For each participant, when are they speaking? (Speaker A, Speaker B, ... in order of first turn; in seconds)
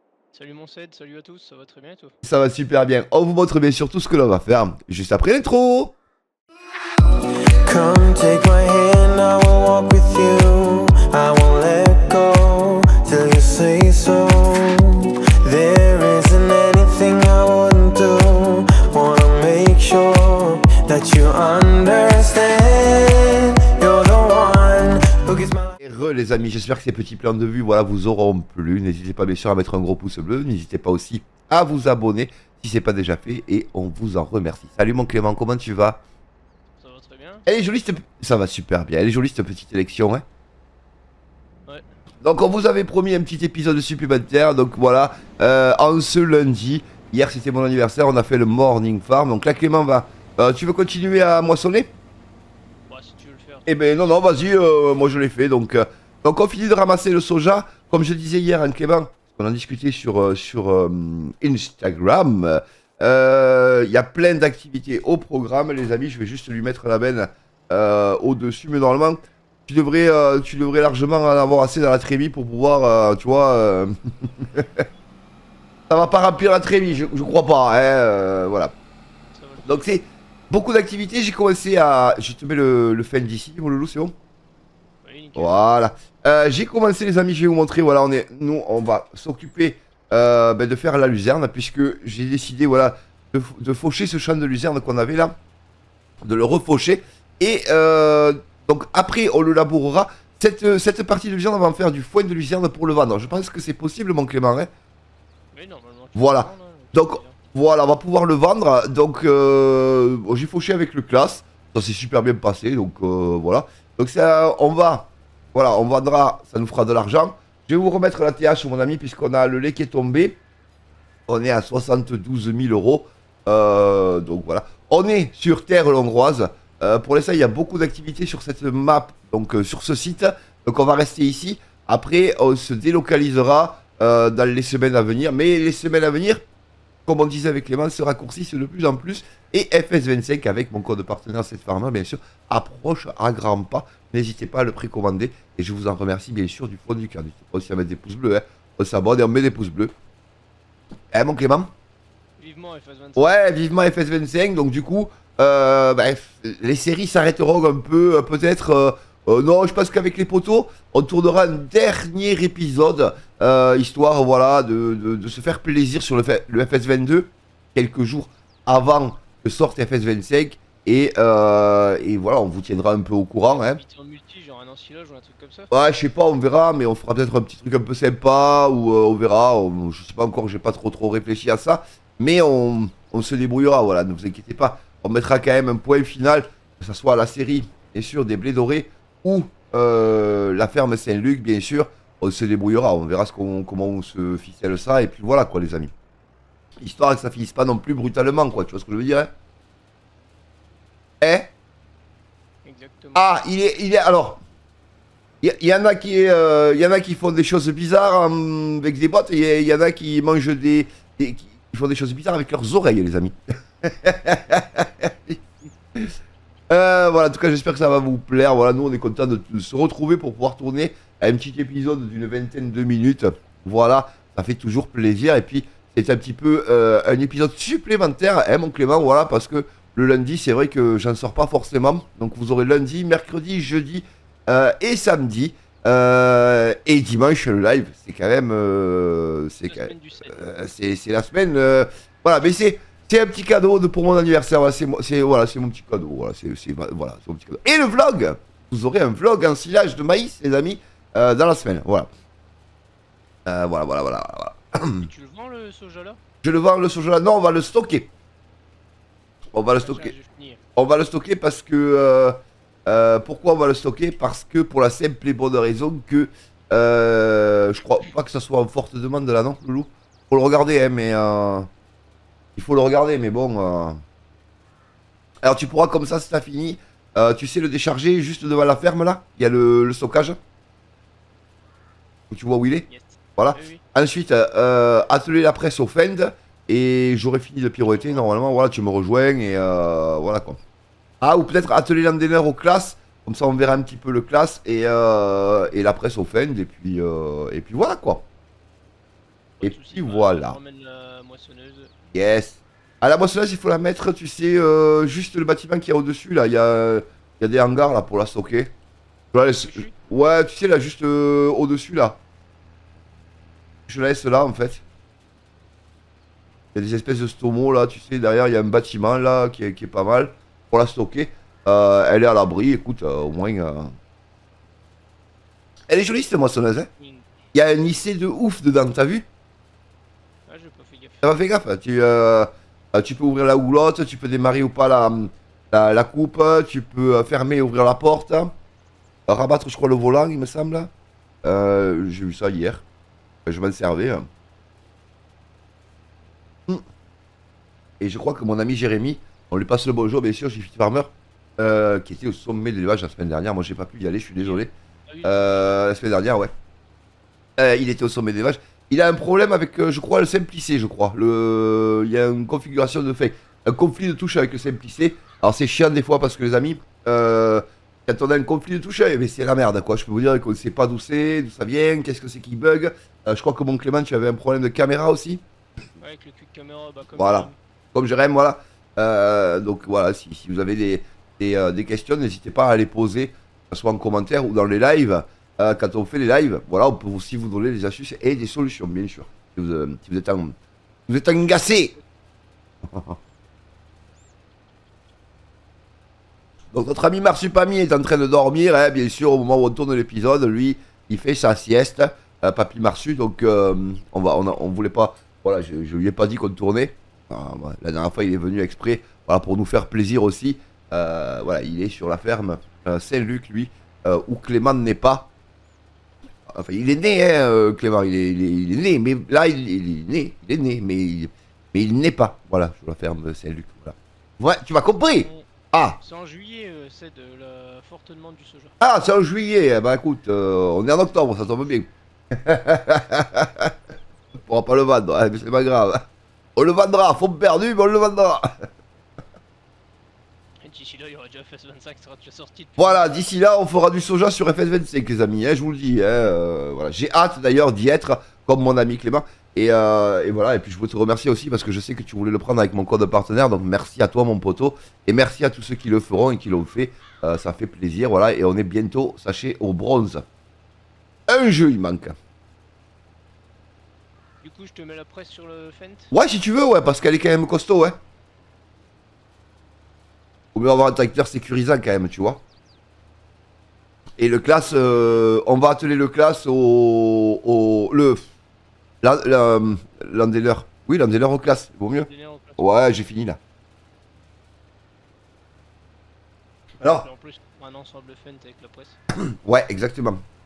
Speaker A: 0.3-2.1, 36.8-37.5, 52.9-54.3, 79.3-79.9, 85.0-85.6, 105.5-107.4, 152.4-153.5, 173.4-175.7, 202.7-203.3, 239.7-240.4, 255.0-256.2, 259.8-260.6, 282.9-283.8, 287.8-288.3, 299.6-301.9, 309.5-310.0, 327.0-327.3, 330.5-331.3, 354.4-355.9, 376.0-377.6, 425.1-425.5, 426.0-428.8, 440.6-443.1, 464.4-466.1, 474.4-475.3, 481.9-482.7, 486.8-489.0
Speaker B: 2.2-6.0, 25.8-36.0, 37.5-40.2, 42.2-51.9, 53.7-74.8, 75.9-78.7, 79.7-84.1, 85.4-95.4, 96.2-104.7, 106.2-120.4, 121.3-136.4, 137.1-149.9, 151.1-151.7, 153.2-173.8, 175.7-195.9, 196.8-199.3, 201.2-201.5, 203.2-204.4, 205.4-215.4, 216.7-252.1, 253.5-255.1, 256.4-258.1, 259.5-260.1, 260.8-271.7, 272.6-274.0, 275.4-280.4, 282.3-290.6, 291.2-298.3, 299.6-300.6, 302.1-308.7, 309.3-312.2, 313.9-314.8, 316.7-323.9, 325.9-326.9, 327.5-329.2, 331.2-338.5, 339.3-340.9, 341.4-342.8, 343.5-344.3, 348.0-354.7, 355.2-356.5, 357.6-375.4, 377.2-390.6, 391.1-392.0, 392.9-393.2, 396.7-415.3, 416.5-426.0, 428.8-433.7, 434.4-436.0, 436.6-438.5, 442.8-460.2, 461.3-462.2, 466.1-468.0, 470.5-472.4, 474.2-478.3, 479.0-483.4, 486.8-487.1, 489.1-490.2
Speaker C: 7.7-25.7